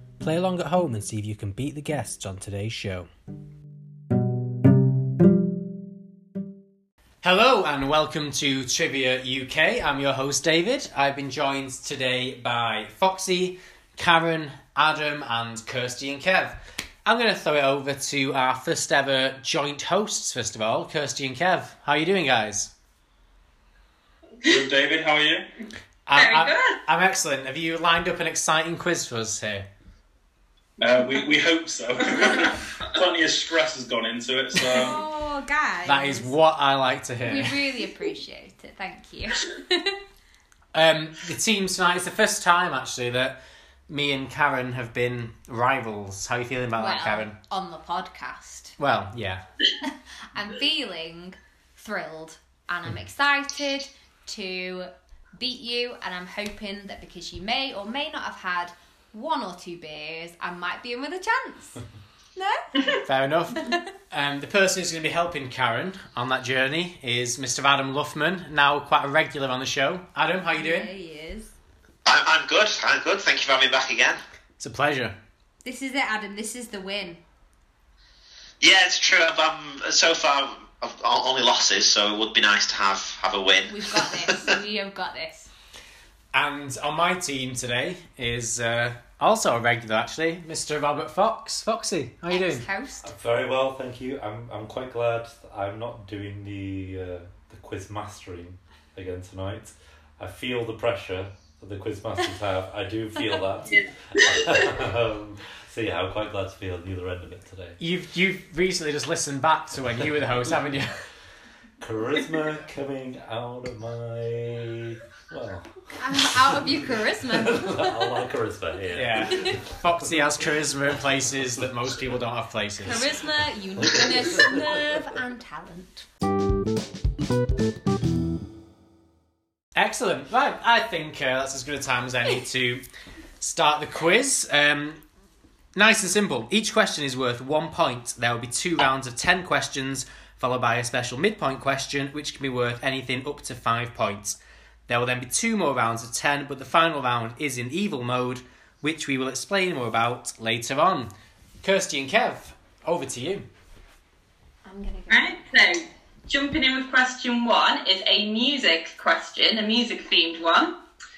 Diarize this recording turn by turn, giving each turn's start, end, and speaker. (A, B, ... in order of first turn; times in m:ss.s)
0:00.2-0:03.1 A
0:07.2-0:22.7 A
0:24.5-0:25.4 B
0:26.1-0:29.7 A
0:26.2-0:26.8 C
0:30.8-0:35.0 B
0:34.7-0:36.3 D
0:35.9-0:37.7 A
0:37.2-0:40.0 D
0:40.7-0:43.4 A
0:43.9-0:47.4 A
0:46.8-0:48.8 D
0:48.8-0:49.4 A
0:50.3-1:01.8 D
1:02.4-1:03.0 D
1:03.0-1:10.9 A
1:03.6-1:03.9 D
1:10.6-1:11.5 D
1:12.1-1:14.2 E
1:14.6-1:15.2 A
1:15.6-1:17.2 D
1:18.6-1:24.5 E
1:23.7-1:25.5 D
1:26.3-1:32.7 A
1:32.3-1:33.1 D
1:33.0-1:47.8 F
1:43.7-1:44.8 C
1:47.8-1:51.0 A
1:50.0-1:50.6 F
1:51.8-2:02.2 F
1:56.0-1:58.2 D
1:59.0-2:03.1 A
2:02.8-2:06.1 D
2:03.8-2:05.0 F
2:09.8-2:12.8 A
2:13.4-2:15.0 A
2:15.8-2:31.1 A
2:31.6-2:33.5 A
2:34.6-2:35.7 D
2:35.1-2:40.8 C